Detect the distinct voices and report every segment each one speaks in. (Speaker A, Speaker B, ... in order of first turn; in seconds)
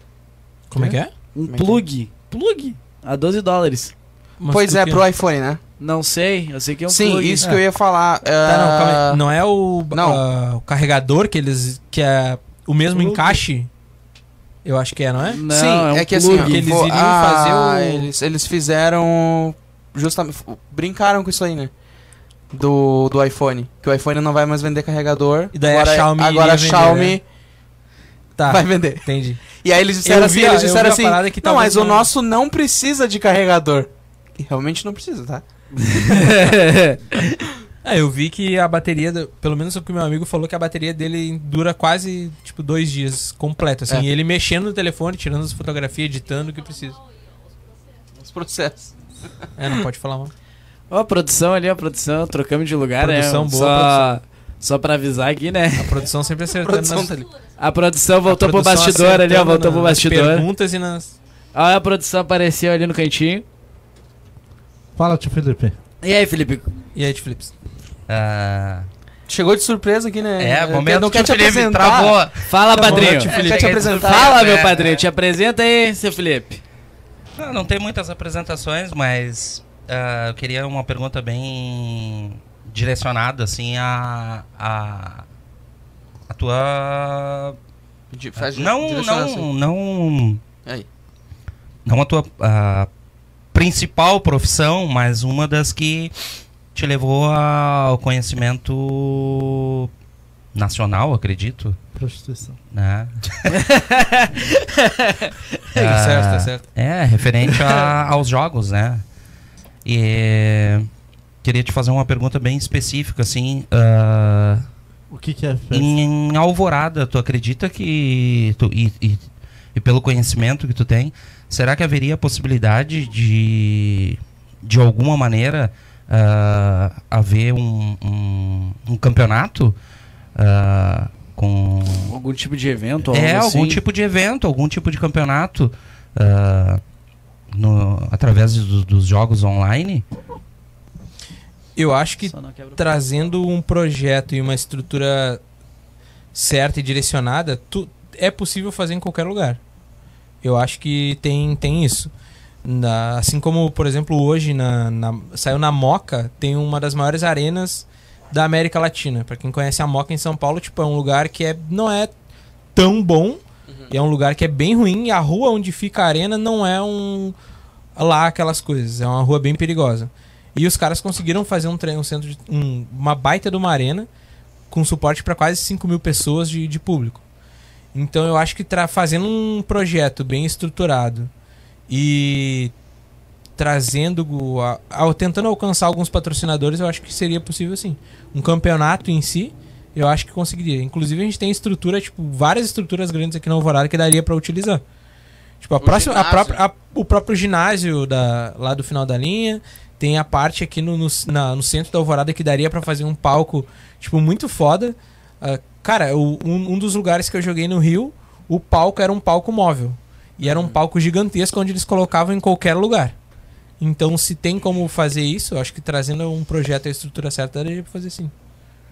Speaker A: 0.7-1.1, 4.4-5.0, 8.4-13.7, 14.6-15.4, 16.3-18.1, 25.5-27.2, 28.4-29.4, 30.0-32.1, 37.8-47.0, 49.6-50.3, 53.0-54.2, 55.8-57.2, 58.2-61.1, 66.9-67.5, 72.7-74.1, 105.7-106.6, 141.8-145.4, 146.3-149.6, 150.4-152.1, 152.6-162.1, 162.7-167.3, 167.9-174.1, 174.7-177.2, 177.9-181.3, 181.9-182.7, 183.6-194.8, 195.6-213.1, 213.8-218.3
Speaker B: 1.3-3.9, 5.8-7.5, 15.3-16.6, 35.7-37.4, 50.9-56.0, 57.6-60.5, 61.5-63.4, 66.0-66.7, 72.5-73.3, 74.0-76.6, 103.5-105.6, 132.0-133.8, 142.2-143.0
Speaker C: 1.5-1.8, 4.5-5.6, 6.9-9.2, 9.9-10.2, 15.5-21.7, 22.5-27.2, 28.5-35.4, 36.0-36.4, 48.1-48.9, 56.6-57.2, 69.3-72.2, 73.3-74.6, 88.1-89.5, 195.8-196.6, 210.4-210.8
Speaker D: 12.9-13.4, 64.9-65.8, 102.0-102.6, 115.1-116.0
Speaker E: 68.1-68.9, 70.4-75.0, 77.4-85.2, 86.3-87.6, 88.4-90.4, 91.8-92.9, 93.5-96.1, 96.7-99.9, 100.5-101.8, 102.7-103.6, 105.8-109.0, 109.8-110.9, 111.4-114.7, 115.7-129.8, 130.3-132.1, 133.1-136.8, 137.5-140.0